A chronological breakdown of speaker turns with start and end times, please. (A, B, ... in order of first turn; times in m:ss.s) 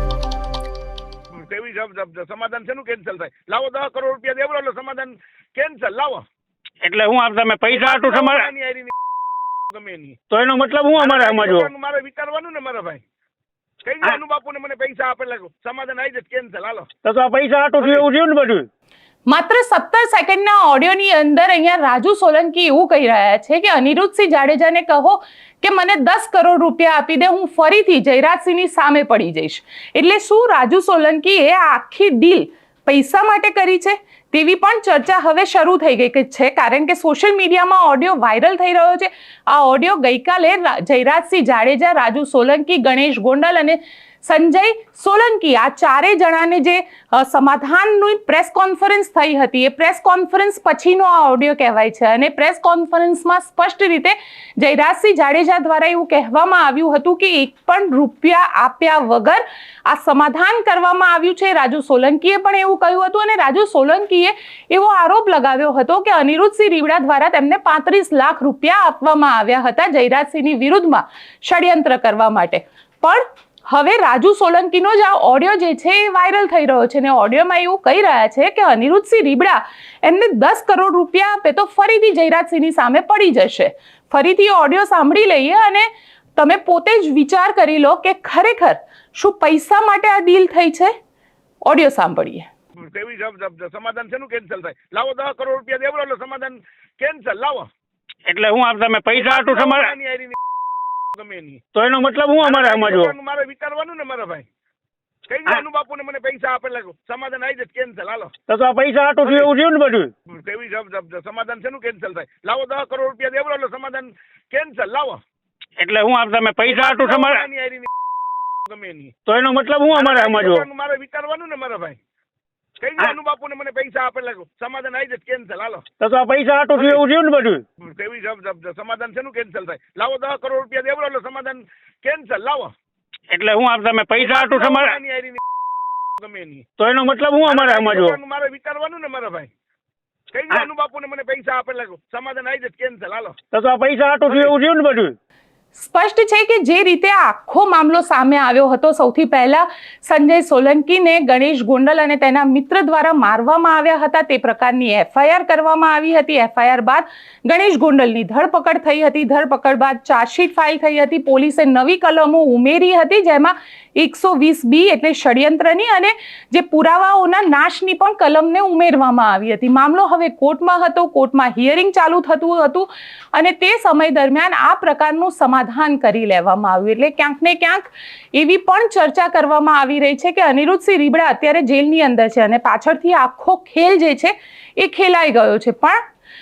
0:01.3-0:06.2 A
0:06.8-0:08.5 B
0:07.7-0:08.9 A
0:09.7-0:10.2 A
0:10.3-0:11.7 B
0:11.0-0:13.0 A
0:13.8-0:16.9 A
0:17.0-0:18.7 B
0:17.8-0:18.0 A
0:19.3-1:30.9 C
1:31.6-1:32.5 C
1:32.8-1:37.7 A
1:38.2-1:39.9 B
1:39.1-1:40.4 A
1:41.2-1:41.6 A
1:41.7-1:43.1 B
1:42.4-1:44.4 A
1:45.3-1:48.3 A
1:48.5-1:50.1 B
1:49.2-1:49.5 A
1:50.3-1:55.2 A
1:55.8-1:57.4 B
1:56.6-1:57.9 A
1:58.7-1:59.1 A
1:59.2-2:00.6 B
1:59.9-2:02.0 A
2:02.8-2:05.8 A
2:06.0-2:07.6 B
2:06.8-2:07.0 A
2:07.8-2:12.7 A
2:13.3-2:15.0 B
2:14.2-2:15.4 A
2:16.2-2:16.6 A
2:16.8-2:18.2 B
2:17.4-2:19.5 A
2:20.3-2:23.4 A
2:23.5-2:25.1 B
2:24.3-2:24.5 A
2:25.8-3:06.0 C